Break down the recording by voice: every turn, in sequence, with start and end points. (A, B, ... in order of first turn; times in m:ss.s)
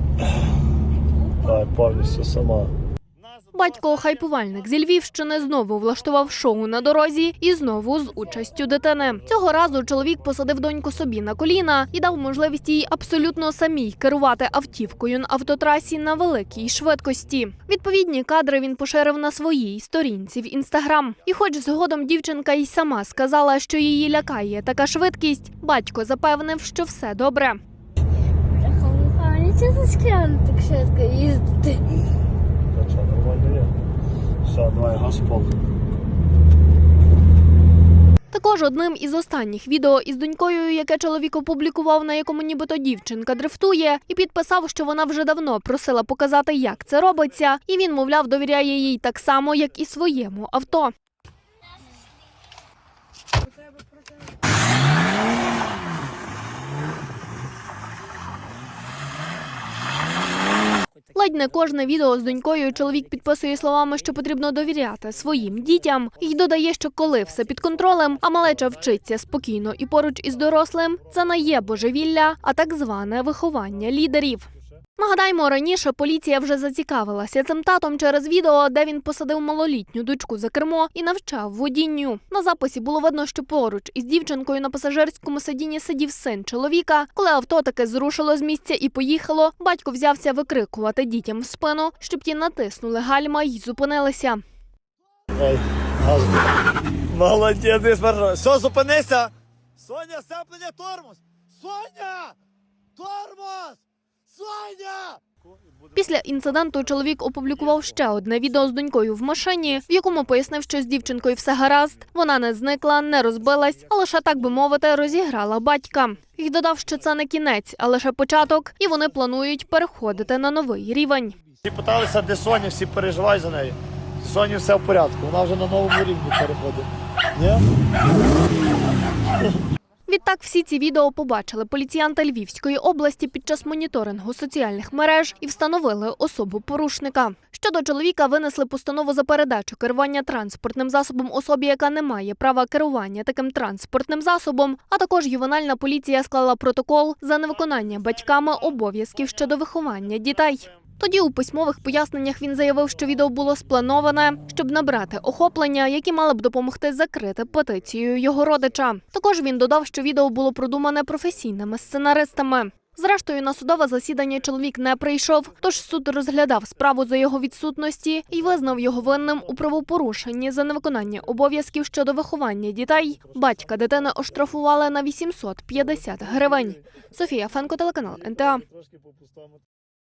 0:01.3-0:02.2 A
0:01.4-0:02.7 B
0:03.4-0:04.2 B
0:03.5-0:27.6 C
0:08.6-0:10.1 B
0:28.4-0:32.1 A
0:32.7-0:33.7 B
0:34.4-0:35.6 B
0:38.3-0:50.9 C
1:01.1-1:34.4 C
1:11.3-1:12.1 B
1:35.4-1:36.5 B
1:37.1-1:42.4 B
1:43.0-1:45.2 B
1:46.0-2:01.4 C
1:47.7-1:48.4 B
1:54.6-1:55.0 B
2:01.6-2:07.7 B
2:10.1-2:58.6 C
2:27.5-2:30.8 B
2:53.1-2:54.5 B
2:55.8-2:56.8 B
2:58.0-2:59.6 B